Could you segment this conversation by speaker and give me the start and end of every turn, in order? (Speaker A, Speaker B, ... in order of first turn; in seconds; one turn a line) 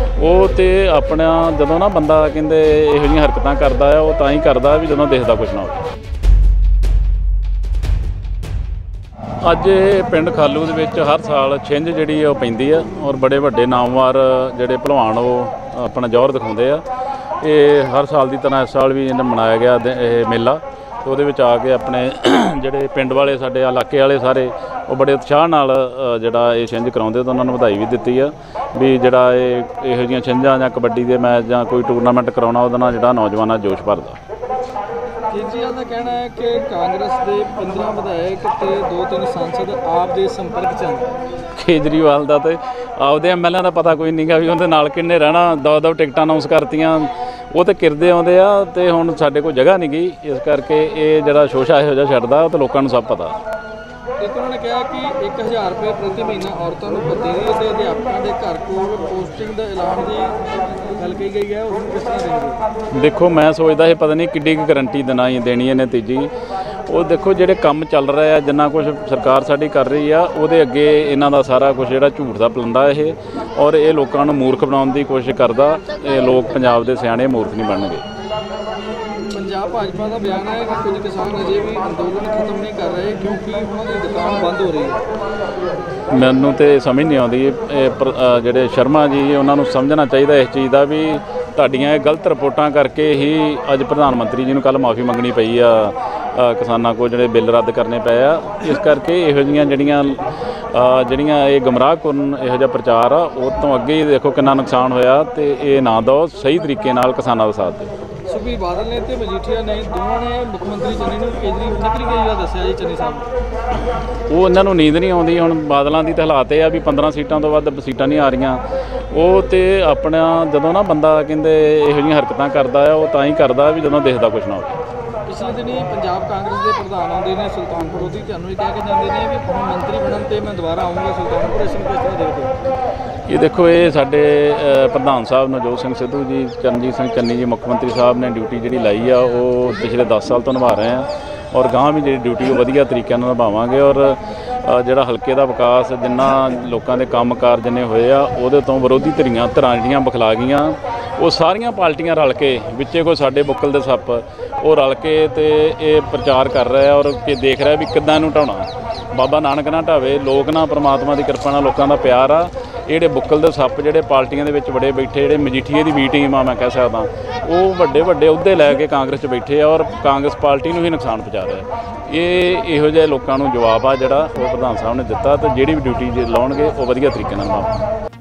Speaker A: 0.2-5.8
Speaker A: 9.4-16.8
Speaker A: 17.4-34.2
Speaker B: 35.3-41.1
Speaker A: 41.5-53.4
Speaker B: 54.2-62.6
Speaker A: 62.9-66.3
Speaker A: 66.9-78.0
Speaker B: 79.3-85.0
Speaker A: 86.1-107.9
Speaker B: 108.3-113.3
Speaker A: 114.3-124.8
Speaker B: 125.3-132.5
Speaker A: 133.3-177.8